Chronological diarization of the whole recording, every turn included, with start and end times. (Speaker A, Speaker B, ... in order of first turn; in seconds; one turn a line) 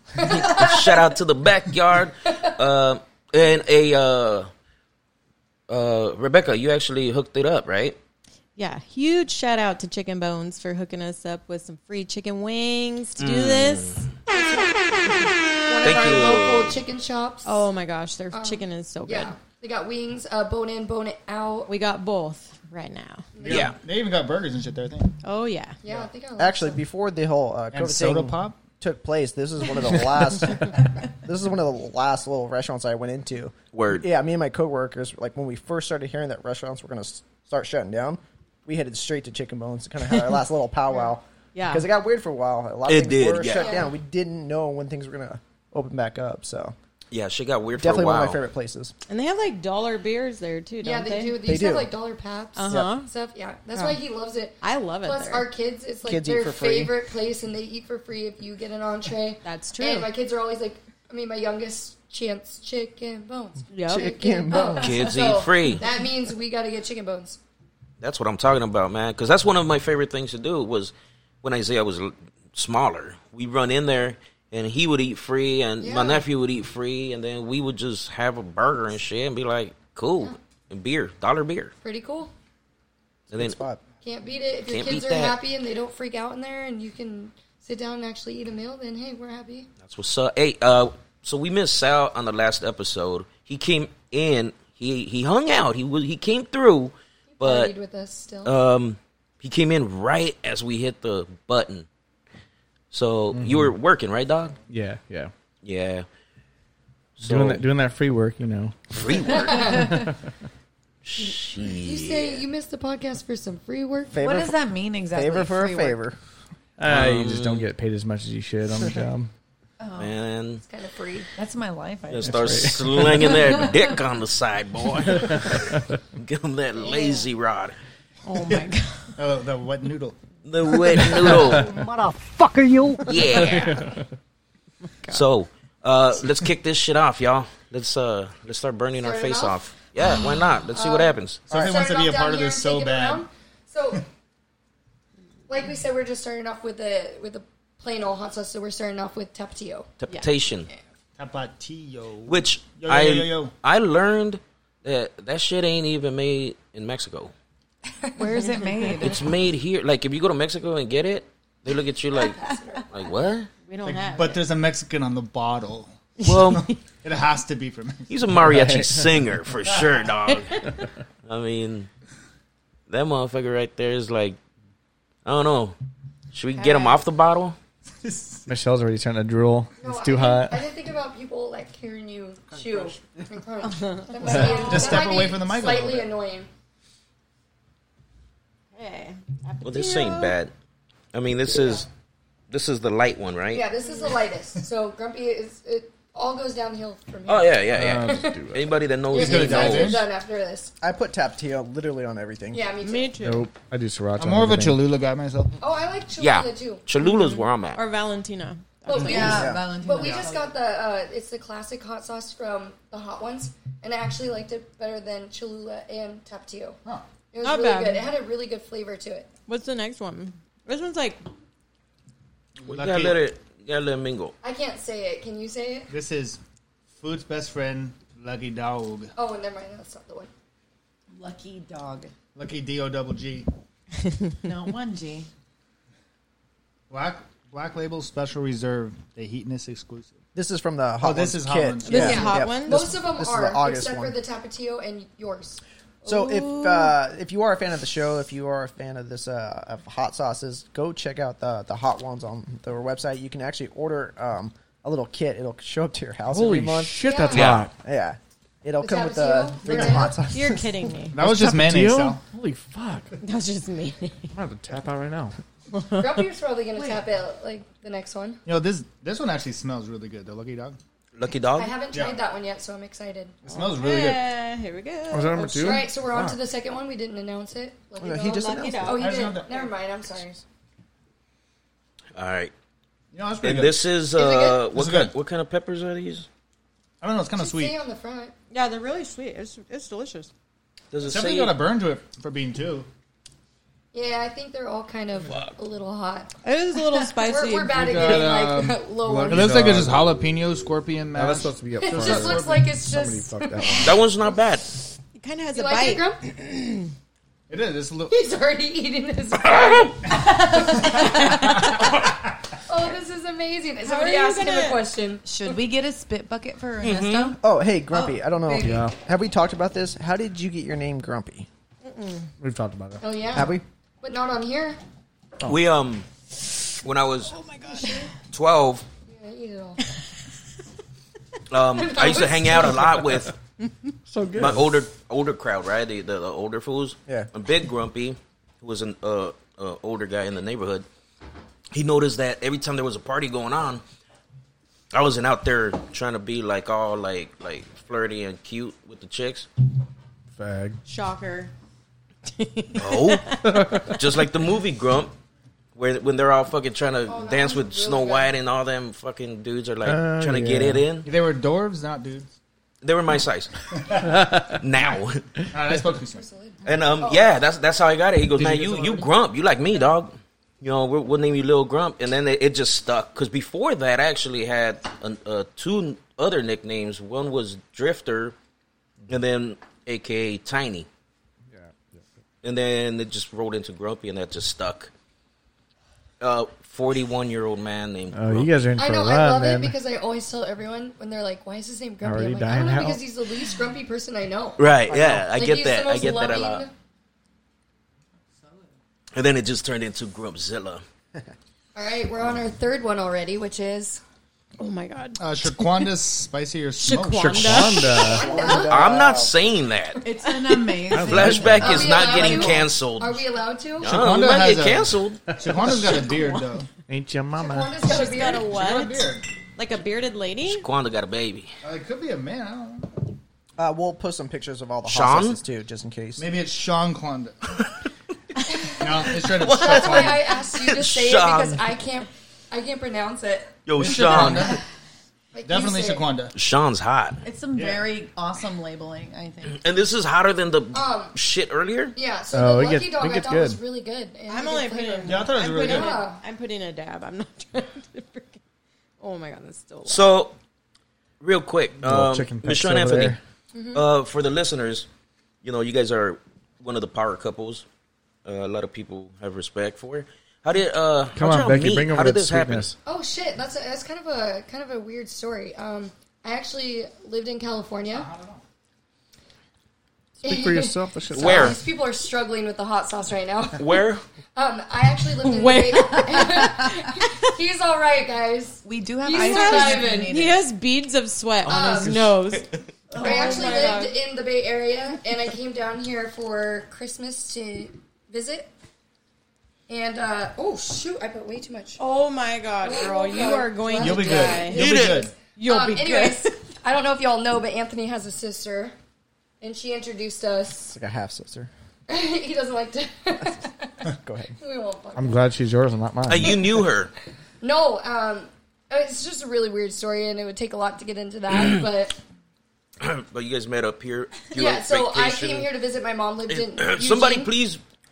Speaker A: 0.2-0.6
Speaker B: 0.3-4.5
Speaker B: 5.7-8.0
Speaker C: 8.6-14.1
Speaker B: 13.2-14.1
Speaker A: 14.3-17.6
Speaker B: 15.8-16.8
Speaker C: 17.4-19.3
Speaker A: 18.3-21.7
Speaker C: 21.7-23.3
Speaker A: 23.4-23.7
Speaker D: 23.4-25.1
Speaker B: 23.5-23.8
Speaker C: 25.2-25.8
Speaker A: 25.8-26.8
Speaker E: 26.4-46.8
Speaker D: 27.7-28.6
Speaker B: 33.7-34.1
Speaker C: 41.5-41.9
Speaker B: 42.9-43.7
Speaker A: 43.5-43.9
Speaker B: 47.1-48.4
Speaker E: 47.8-48.9
Speaker C: 49.1-51.4
Speaker A: 50.8-67.4
Speaker E: 51.4-51.9
Speaker C: 52.6-53.1
Speaker C: 54.6-55.5
Speaker E: 56.0-56.9
Speaker C: 59.4-60.1
Speaker C: 63.7-64.6
Speaker E: 63.9-65.1
Speaker B: 64.8-65.8
Speaker B: 68.0-81.7
Speaker A: 75.8-76.2
Speaker A: 81.8-82.3
Speaker E: 83.3-83.8
Speaker B: 83.3-83.6
Speaker A: 84.0-89.7
Speaker B: 84.7-85.4
Speaker B: 89.8-97.7
Speaker A: 97.3-98.5
Speaker B: 98.4-101.9
Speaker B: 102.9-104.6
Speaker F: 103.3-103.8
Speaker F: 104.7-105.3
Speaker B: 105.6-106.1
Speaker B: 107.2-107.6
Speaker F: 107.2-108.8
Speaker B: 108.9-109.9
Speaker A: 109.3-110.1
Speaker F: 109.5-110.1
Speaker B: 111.0-112.4
Speaker A: 111.6-114.2
Speaker E: 114.1-116.2
Speaker G: 114.2-116.0
Speaker F: 116.8-119.3
Speaker B: 116.9-117.7
Speaker G: 119.8-120.2
Speaker B: 120.0-120.6
Speaker A: 120.7-121.3
Speaker G: 121.4-123.1
Speaker B: 122.1-127.8
Speaker F: 122.3-123.2
Speaker F: 125.1-125.9
Speaker C: 128.3-129.1
Speaker D: 128.4-130.2
Speaker B: 130.5-131.8
Speaker D: 131.0-131.6
Speaker B: 133.1-134.0
Speaker F: 133.3-134.1
Speaker B: 135.1-141.4
Speaker A: 139.0-139.6
Speaker A: 140.7-144.1
Speaker D: 141.5-143.2
Speaker E: 141.5-141.8
Speaker A: 145.5-149.9
Speaker B: 150.0-150.7
Speaker D: 151.2-153.5
Speaker B: 152.3-157.3
Speaker G: 158.2-159.4
Speaker B: 159.0-163.5
Speaker C: 163.7-164.4
Speaker D: 163.8-168.2
Speaker C: 166.2-166.5
Speaker B: 166.2-166.7
Speaker B: 168.1-170.7
Speaker F: 168.3-169.2
Speaker D: 169.7-170.1
Speaker B: 171.2-171.9
Speaker B: 172.9-174.4
Speaker B: 175.2-175.8
Speaker B: 176.3-177.6
Speaker C: 176.6-177.1
Speaker D: 178.0-178.6
Speaker F: 178.5-180.7
Speaker A: 179.8-186.5
Speaker D: 182.5-183.2
Speaker C: 183.8-184.8
Speaker D: 184.2-186.1
Speaker C: 188.8-190.4
Speaker B: 189.6-190.5
Speaker B: 191.1-191.9
Speaker B: 192.5-193.7
Speaker A: 193.5-198.4
Speaker B: 197.3-200.0
Speaker F: 197.7-198.7
Speaker A: 199.1-200.7
Speaker D: 199.1-200.1
Speaker E: 200.8-202.7
Speaker A: 202.5-203.2
Speaker C: 202.8-203.5
Speaker F: 203.2-204.9
Speaker D: 204.2-205.5
Speaker A: 205.6-206.8
Speaker B: 206.2-207.8
Speaker C: 207.0-209.5
Speaker A: 208.8-216.8
Speaker G: 209.0-210.5
Speaker E: 209.2-209.7
Speaker D: 210.0-210.3
Speaker A: 217.3-219.3
Speaker C: 217.4-218.1
Speaker C: 219.5-221.2
Speaker D: 222.6-223.3
Speaker B: 222.7-224.3
Speaker A: 224.4-225.9
Speaker D: 225.9-226.4
Speaker D: 227.0-229.1
Speaker A: 229.2-230.3
Speaker G: 231.2-232.1
Speaker D: 232.3-233.5
Speaker G: 234.4-235.3
Speaker D: 236.9-240.2
Speaker E: 240.3-244.2
Speaker D: 241.0-242.2
Speaker C: 241.8-242.9
Speaker A: 241.9-245.6
Speaker C: 246.0-246.9
Speaker E: 246.1-257.1
Speaker F: 256.3-257.7
Speaker A: 257.0-257.6
Speaker B: 257.3-257.7
Speaker E: 257.8-260.7
Speaker A: 258.8-260.2
Speaker C: 260.3-261.1
Speaker D: 261.1-262.2
Speaker F: 261.2-263.1
Speaker C: 263.2-264.3
Speaker F: 264.3-265.4
Speaker A: 266.0-268.4
Speaker G: 266.8-267.0
Speaker D: 268.5-270.8
Speaker B: 271.1-271.7
Speaker A: 271.6-273.4
Speaker D: 271.9-272.2
Speaker D: 273.4-274.2
Speaker C: 273.5-275.7
Speaker F: 275.1-276.4
Speaker A: 275.5-280.4
Speaker E: 278.0-279.1
Speaker C: 278.2-279.6
Speaker D: 278.9-279.7
Speaker B: 282.2-282.5
Speaker D: 283.1-283.9
Speaker B: 283.4-286.3
Speaker A: 284.1-284.7
Speaker D: 284.7-285.1
Speaker D: 287.0-287.8
Speaker A: 287.4-288.3
Speaker C: 288.5-290.3
Speaker B: 290.9-291.6
Speaker D: 291.0-292.9
Speaker A: 293.9-296.3
Speaker B: 295.3-295.6
Speaker C: 296.4-297.9
Speaker A: 297.2-299.8
Speaker D: 297.7-302.7
Speaker F: 299.0-300.2
Speaker F: 301.1-304.0
Speaker A: 301.8-304.0
Speaker B: 303.8-304.7
Speaker C: 305.2-306.9
Speaker A: 305.5-306.2
Speaker D: 307.5-308.1
Speaker A: 308.1-311.2
Speaker D: 311.5-312.1
Speaker A: 312.7-315.6
Speaker C: 313.8-314.8
Speaker G: 315.2-317.4
Speaker B: 316.8-317.4
Speaker E: 317.4-321.5
Speaker G: 317.9-318.5
Speaker F: 318.6-318.9
Speaker C: 321.9-322.2
Speaker F: 322.4-323.0
Speaker A: 323.0-324.8
Speaker E: 323.3-323.6
Speaker B: 325.4-326.1
Speaker B: 326.8-327.3
Speaker C: 327.5-328.0
Speaker B: 328.3-328.8
Speaker A: 329.1-329.8
Speaker B: 331.5-333.3
Speaker A: 331.8-333.1
Speaker F: 334.1-334.7
Speaker B: 334.4-340.9
Speaker B: 341.7-343.8
Speaker B: 344.9-349.5
Speaker F: 350.4-350.8
Speaker G: 350.9-351.5
Speaker C: 352.4-353.6
Speaker B: 352.8-355.1
Speaker F: 353.5-354.0
Speaker B: 355.8-361.1
Speaker A: 357.1-358.3
Speaker F: 359.8-360.9
Speaker D: 361.0-362.3
Speaker B: 362.8-363.5
Speaker D: 363.8-364.2
Speaker F: 364.1-364.5
Speaker B: 364.5-365.3
Speaker D: 365.5-366.2
Speaker A: 366.1-367.3
Speaker B: 366.6-378.4
Speaker D: 368.3-369.1
Speaker B: 379.1-380.9
Speaker F: 381.5-382.0
Speaker B: 382.4-384.9
Speaker B: 386.2-388.5
Speaker F: 388.1-389.8
Speaker A: 388.8-394.6
Speaker F: 392.0-393.0
Speaker B: 394.6-396.7
Speaker A: 395.3-396.7
Speaker B: 399.1-400.8
Speaker A: 401.8-404.0
Speaker C: 404.6-405.9
Speaker D: 405.2-407.9
Speaker C: 406.8-408.2
Speaker F: 407.1-408.3
Speaker A: 407.9-408.8
Speaker E: 408.1-409.4
Speaker B: 408.5-410.0
Speaker G: 410.0-412.6
Speaker F: 410.9-411.9
Speaker B: 410.9-413.2
Speaker A: 411.6-413.9
Speaker B: 413.8-415.2
Speaker D: 413.8-416.7
Speaker F: 415.3-415.7
Speaker C: 416.1-416.4
Speaker F: 416.9-417.8
Speaker A: 417.4-418.5
Speaker C: 417.9-420.6
Speaker D: 418.3-419.3
Speaker B: 420.5-421.5
Speaker D: 421.6-423.0
Speaker E: 423.6-426.3
Speaker B: 424.9-425.4
Speaker D: 426.2-427.4
Speaker D: 428.8-430.3
Speaker B: 429.2-431.6
Speaker A: 429.5-433.6
Speaker B: 433.7-434.6
Speaker D: 433.8-434.6
Speaker A: 435.3-436.1
Speaker D: 435.4-436.3
Speaker B: 436.4-437.2
Speaker G: 437.2-439.6
Speaker D: 437.5-437.9
Speaker B: 439.5-441.9
Speaker A: 440.7-441.1
Speaker A: 441.9-446.2
Speaker F: 442.3-443.6
Speaker C: 444.3-448.4
Speaker D: 445.1-446.1
Speaker C: 449.0-450.1
Speaker B: 449.9-450.4
Speaker B: 451.2-453.2
Speaker F: 451.8-453.2
Speaker A: 453.5-453.8
Speaker B: 453.7-454.9
Speaker B: 455.4-457.6
Speaker B: 458.2-462.7
Speaker F: 461.1-462.8
Speaker A: 462.9-468.1
Speaker D: 467.9-468.4
Speaker F: 470.2-471.6
Speaker A: 470.2-473.8
Speaker B: 471.1-471.6
Speaker B: 473.6-474.0
Speaker A: 474.4-480.1
Speaker C: 475.2-476.6
Speaker G: 478.6-480.4
Speaker C: 479.1-484.0
Speaker A: 481.4-482.0
Speaker B: 481.7-482.3
Speaker G: 482.9-483.8
Speaker A: 483.0-488.5
Speaker A: 489.7-491.8
Speaker C: 491.8-496.3
Speaker A: 492.6-494.9
Speaker D: 493.8-495.1
Speaker B: 494.5-495.1
Speaker A: 495.4-498.7
Speaker A: 499.4-500.7
Speaker E: 500.6-501.5
Speaker A: 501.9-503.8
Speaker E: 503.9-504.4
Speaker A: 504.4-505.3
Speaker F: 505.0-506.6
Speaker B: 506.1-506.9
Speaker A: 507.4-512.0
Speaker B: 511.3-511.6
Speaker B: 512.8-515.5
Speaker A: 514.3-517.3
Speaker B: 516.3-517.6